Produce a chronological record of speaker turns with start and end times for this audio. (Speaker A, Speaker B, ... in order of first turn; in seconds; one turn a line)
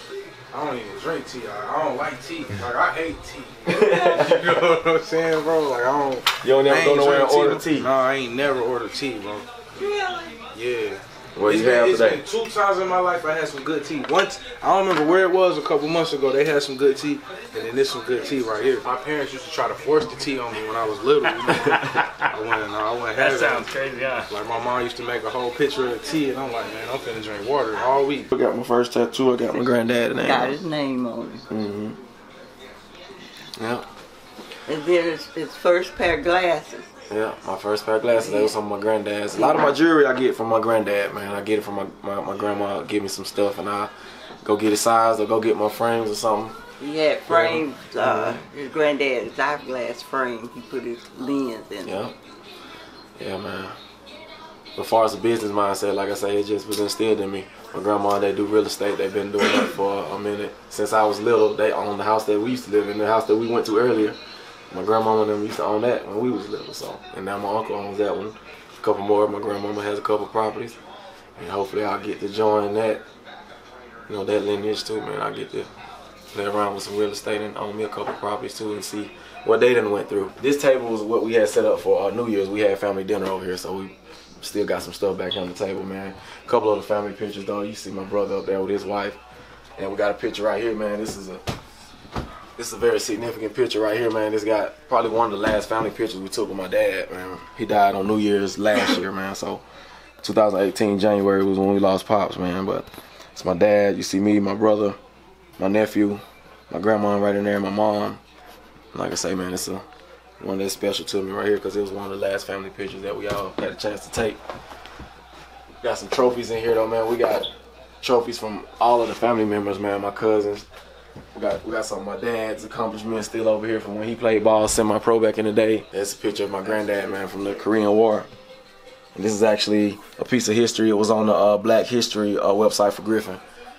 Speaker A: 0.5-9.5
Speaker B: 3.7-4.8
Speaker B: 6.4-7.9
Speaker C: 9.8-10.4
Speaker A: 10.5-23.8
Speaker B: 11.3-12.2
Speaker D: 21.5-22.3
Speaker D: 23.1-24.3
Speaker A: 24.3-28.3
Speaker B: 28.3-30.6
Speaker C: 29.5-31.4
Speaker B: 31.5-32.0
Speaker B: 33.6-33.9
Speaker C: 34.7-36.9
Speaker B: 37.1-43.9
Speaker C: 38.1-38.6
Speaker C: 39.4-39.8
Speaker B: 44.4-46.6
Speaker C: 46.8-52.0
Speaker B: 47.3-48.4
Speaker B: 51.9-52.1
Speaker B: 53.2-53.8
Speaker B: 54.8-64.2
Speaker B: 64.7-70.8
Speaker B: 71.4-73.0
Speaker B: 74.1-75.7
Speaker B: 76.3-89.2
Speaker B: 89.8-91.4
Speaker B: 92.6-99.6
Speaker B: 100.2-105.0
Speaker B: 105.6-108.2
Speaker B: 108.9-109.8
Speaker B: 110.4-114.4
Speaker B: 115.8-117.5
Speaker B: 118.0-120.7
Speaker B: 121.3-128.3
Speaker B: 129.2-133.4